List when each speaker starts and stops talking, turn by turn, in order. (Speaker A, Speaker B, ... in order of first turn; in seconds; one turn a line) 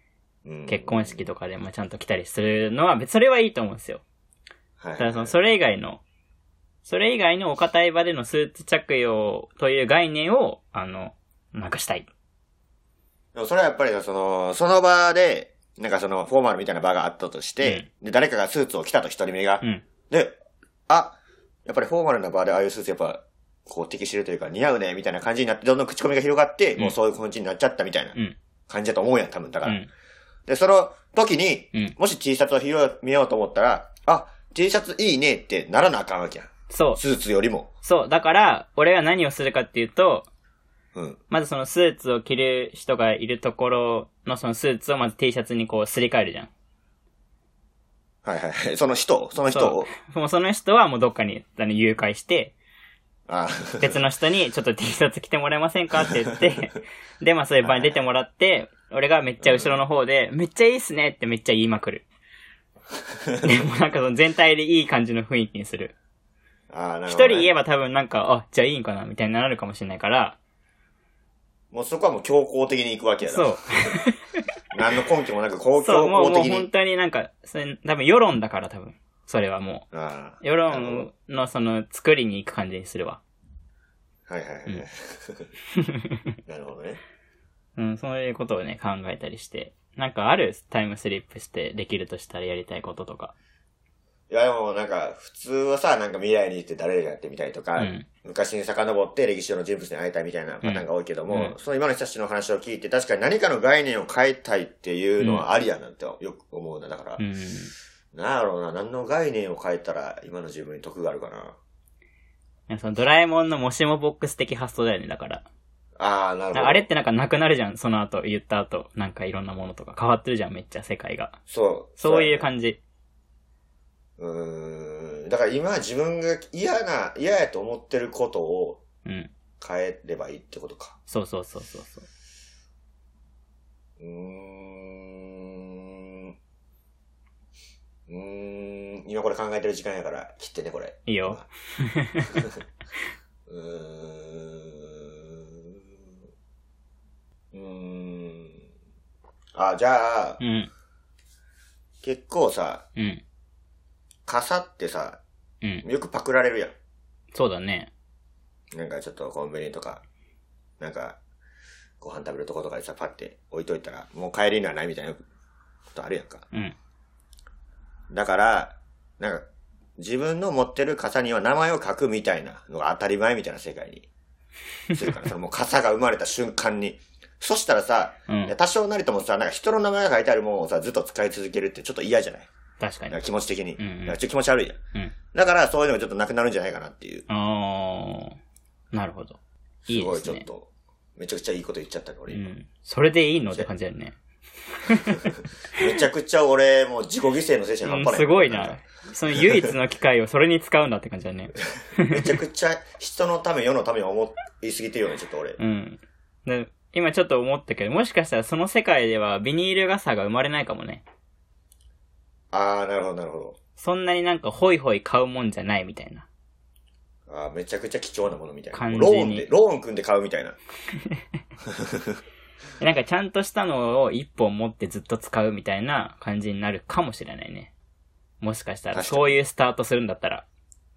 Speaker A: 0.5-1.3
Speaker B: 0.7-4.0
Speaker A: 4.8-5.3
Speaker B: 5.0-6.0
Speaker B: 6.8-12.1
Speaker A: 13.3-20.4
Speaker B: 17.6-17.9
Speaker A: 20.9-28.1
Speaker A: 28.7-29.8
Speaker A: 30.5-37.7
Speaker B: 36.7-37.0
Speaker B: 37.8-40.3
Speaker A: 41.0-41.2
Speaker B: 41.3-46.5
Speaker A: 48.2-49.9
Speaker B: 49.5-52.5
Speaker A: 53.3-54.0
Speaker B: 53.8-62.0
Speaker A: 57.6-58.0
Speaker A: 59.4-59.8
Speaker B: 63.4-65.9
Speaker A: 66.7-67.5
Speaker B: 67.1-70.4
Speaker A: 71.7-74.0
Speaker B: 73.3-74.4
Speaker A: 74.7-76.7
Speaker B: 75.8-79.9
Speaker A: 79.9-81.1
Speaker B: 80.4-83.2
Speaker A: 84.3-85.5
Speaker B: 85.8-86.2
Speaker A: 86.5-87.0
Speaker B: 87.8-93.3
Speaker A: 94.3-107.2
Speaker B: 97.8-98.1
Speaker B: 100.6-101.5
Speaker B: 105.2-105.5
Speaker B: 107.2-107.7
Speaker A: 108.1-111.6
Speaker B: 112.7-115.5
Speaker A: 116.0-116.9
Speaker B: 116.5-121.3
Speaker A: 121.5-122.5
Speaker B: 122.0-122.8
Speaker A: 124.2-128.8
Speaker B: 129.1-129.3
Speaker A: 129.6-131.0
Speaker B: 131.1-132.1
Speaker A: 134.0-136.3
Speaker A: 138.1-141.5
Speaker B: 141.1-142.3
Speaker A: 143.5-145.8
Speaker A: 147.5-148.6
Speaker A: 149.6-150.4
Speaker B: 150.4-150.7
Speaker A: 152.0-152.8
Speaker B: 153.0-153.2
Speaker A: 154.3-155.2
Speaker A: 155.8-156.7
Speaker B: 157.3-157.9
Speaker A: 158.7-160.0
Speaker A: 160.8-161.2
Speaker A: 162.0-165.2
Speaker A: 165.9-166.5
Speaker A: 168.1-169.5
Speaker A: 170.0-174.1
Speaker A: 174.9-182.5
Speaker B: 178.3-178.6
Speaker B: 182.8-183.2
Speaker A: 183.1-184.8
Speaker B: 183.8-184.2
Speaker A: 185.3-187.2
Speaker B: 187.3-188.4
Speaker B: 188.9-190.5
Speaker A: 189.9-192.5
Speaker B: 192.3-194.2
Speaker B: 194.8-195.3
Speaker A: 195.8-198.8
Speaker B: 197.9-202.2
Speaker A: 202.1-205.6
Speaker B: 205.6-211.1
Speaker A: 212.5-213.6
Speaker B: 213.8-216.3
Speaker A: 217.3-220.6
Speaker B: 218.7-219.5
Speaker B: 222.8-227.7
Speaker B: 228.4-230.4
Speaker A: 228.9-229.4